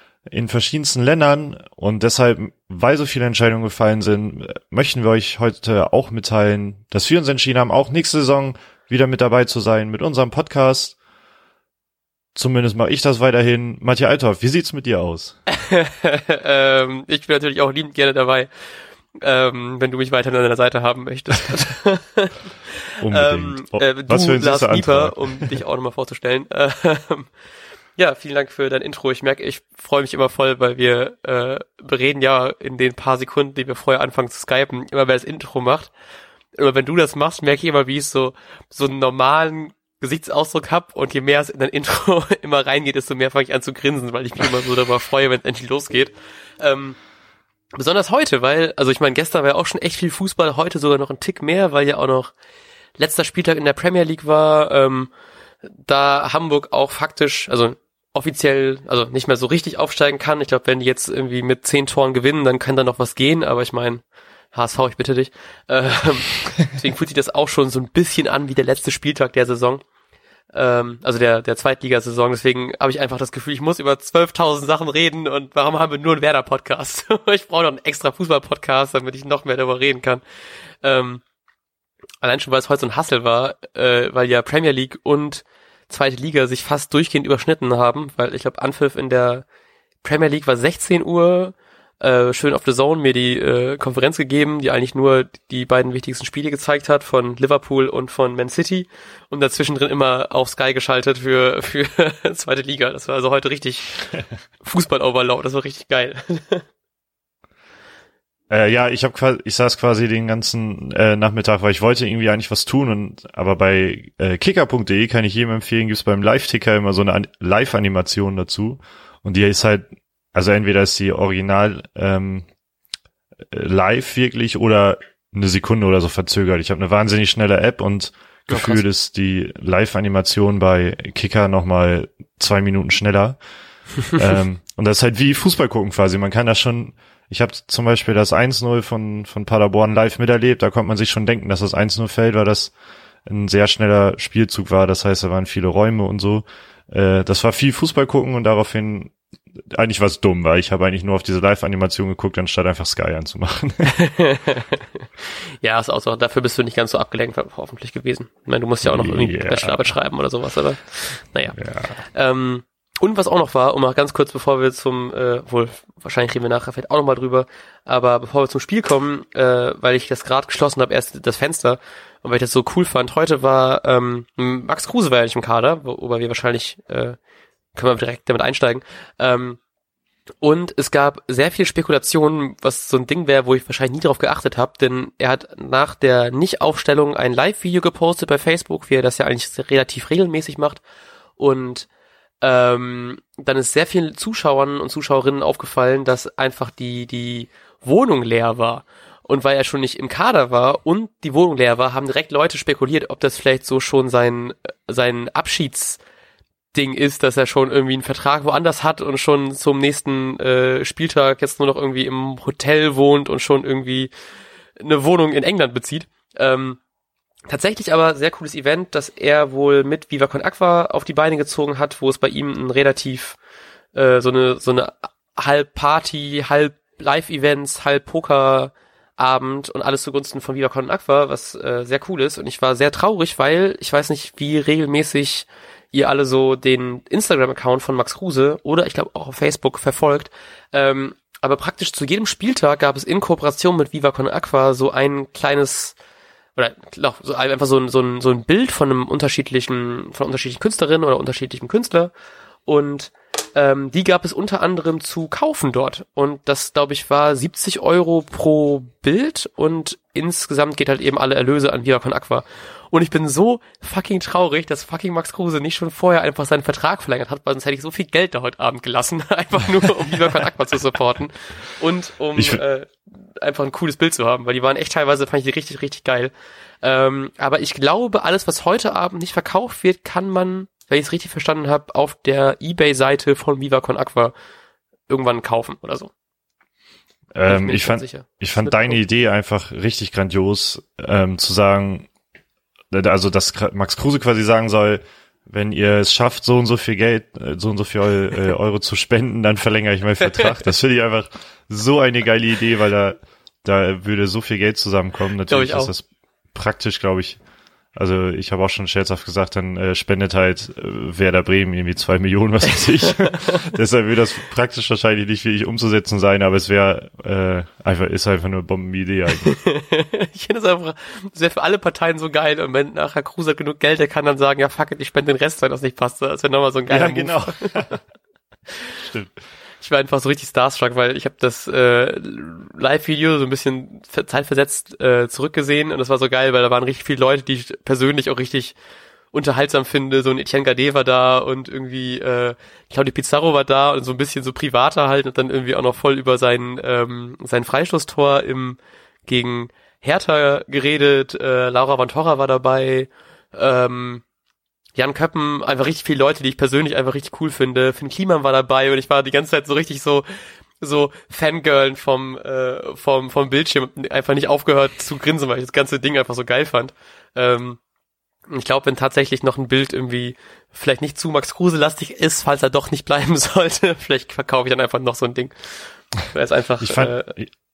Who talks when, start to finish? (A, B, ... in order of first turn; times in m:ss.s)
0:00.3-0:11.0 A
0:12.3-0:15.4 A
0:15.5-0:18.5 B
0:19.2-0:22.3 B
0:23.0-0:25.6 A
0:23.1-0:27.3 B
0:28.0-0:35.9 B
0:36.6-0:47.0 B
0:47.7-0:52.3 B
0:53.0-0:55.1 B
0:55.6-1:09.8 B
1:10.5-1:20.2 B
1:20.8-1:21.2 B
1:22.2-1:29.4 B
1:30.0-1:44.1 B
1:44.6-1:46.6 B
1:48.5-2:02.5 A
2:03.5-2:13.4 A
2:08.5-2:08.8 B
2:14.1-2:22.7 A
2:23.2-2:34.0 A
2:33.9-2:35.0 B
2:35.6-2:57.2 B
2:38.8-2:39.9 A
2:41.5-2:41.9 A
2:57.7-2:59.6 B
3:00.4-3:10.8 B
3:11.4-3:11.9 B
3:12.4-3:26.0 B
3:26.7-3:34.1 B
3:34.8-3:36.8 B
3:37.5-3:43.4 B
3:43.9-4:06.0 B
4:06.6-4:12.1 B
4:12.7-4:36.3 B
4:32.3-4:32.6 A
4:36.8-4:44.3 B
4:45.1-4:46.1 B
4:47.3-4:52.1 A
4:47.5-4:49.0 B
4:52.9-5:07.4 A
5:05.5-5:05.9 B
5:07.9-5:19.6 A
5:13.0-5:13.6 B
5:19.4-5:27.9 B
5:26.9-5:27.9 A
5:29.0-5:29.3 A
5:29.8-5:38.7 B
5:39.3-5:54.2 B
5:55.0-6:00.2 B
6:00.8-6:07.8 B
6:08.5-6:15.5 B
6:16.2-6:17.3 B
6:16.8-6:17.5 A